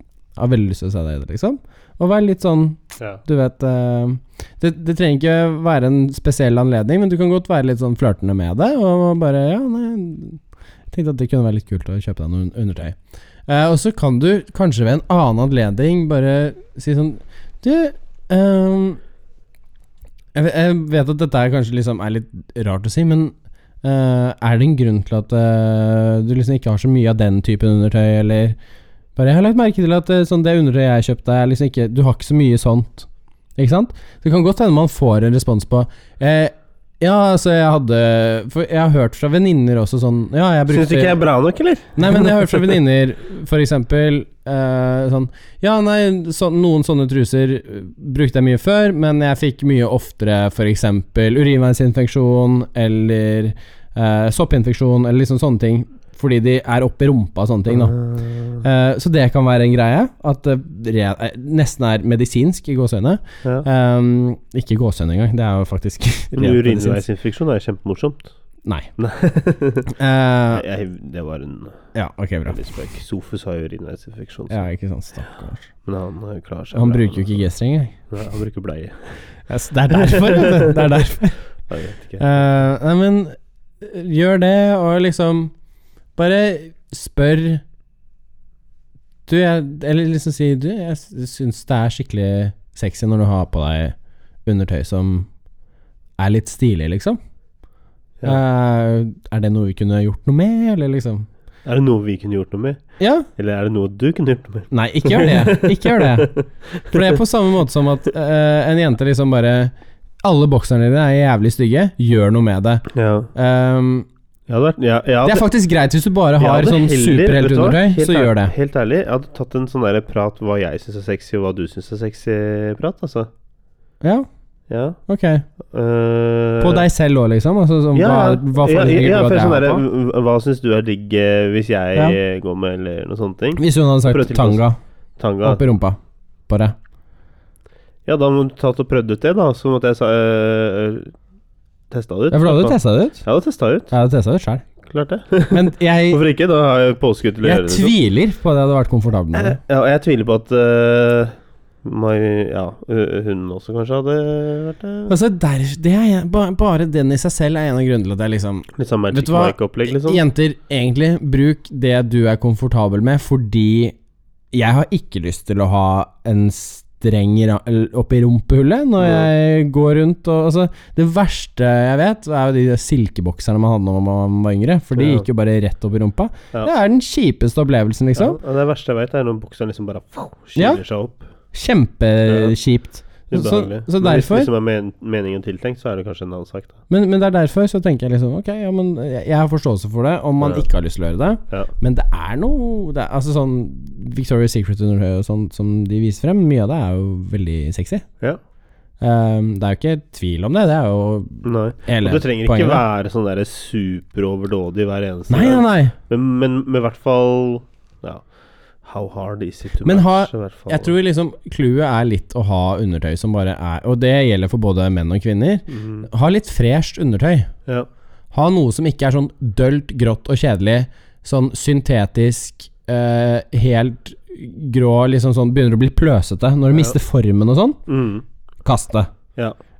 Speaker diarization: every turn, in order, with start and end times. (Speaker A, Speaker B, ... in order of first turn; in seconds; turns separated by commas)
Speaker A: 0.3-12.9, Speaker A: 13.5-19.0, Speaker A: 20.3-28.6, Speaker A: 29.1-41.2, Speaker B: 40.7-42.7, Speaker A: 41.9-58.0, Speaker B: 57.7-58.6, Speaker A: 58.6-67.0, Speaker B: 66.3-68.3, Speaker A: 68.6-68.9, Speaker B: 69.0-69.9, Speaker A: 69.9-70.7, Speaker B: 70.5-71.8, Speaker A: 71.9-72.6, Speaker B: 72.5-74.6, Speaker A: 74.5-75.7, Speaker B: 75.8-77.5, Speaker A: 76.7-78.0, Speaker B: 78.1-79.1, Speaker A: 79.5-81.4, Speaker B: 79.9-81.1, Speaker B: 81.7-82.3, Speaker A: 82.2-85.5, Speaker A: 86.2-87.6, Speaker A: 89.3-93.9, Speaker A: 94.5-95.3, Speaker A: 96.2-97.2, Speaker A: 98.2-101.3, Speaker B: 101.6-102.8, Speaker A: 103.0-103.3, Speaker B: 103.4-107.2, Speaker A: 104.7-109.7, Speaker A: 110.2-114.1, Speaker B: 112.9-113.3, Speaker B: 114.5-115.5, Speaker A: 115.2-118.5, Speaker B: 116.4-123.3, Speaker A: 124.0-124.3, Speaker B: 124.7-125.0, Speaker A: 125.1-125.4, Speaker B: 125.7-126.9, Speaker A: 126.6-129.8, Speaker B: 127.9-134.6, Speaker A: 133.6-134.8, Speaker B: 135.2-135.6, Speaker A: 135.4-136.0, Speaker A: 136.5-136.7, Speaker B: 138.1-141.1, Speaker B: 141.9-143.9, Speaker A: 142.3-143.2, Speaker A: 143.9-144.7, Speaker B: 144.8-147.9, Speaker A: 145.5-146.2, Speaker A: 147.4-149.6, Speaker B: 149.3-155.1, Speaker A: 155.1-163.9, Speaker B: 158.7-160.2, Speaker A: 164.5-178.4, Speaker B: 169.0-169.3, Speaker B: 174.9-175.2, Speaker B: 178.2-181.2, Speaker A: 180.6-180.8, Speaker A: 181.5-184.5, Speaker B: 182.3-182.5, Speaker B: 183.3-186.8, Speaker A: 186.9-198.1, Speaker B: 190.4-190.7, Speaker A: 199.0-202.8, Speaker B: 201.4-208.2, Speaker A: 205.3-205.9, Speaker B: 208.8-210.9, Speaker A: 209.8-217.5, Speaker B: 215.7-216.1, Speaker A: 218.3-227.8, Speaker B: 227.9-228.2, Speaker A: 228.6-229.1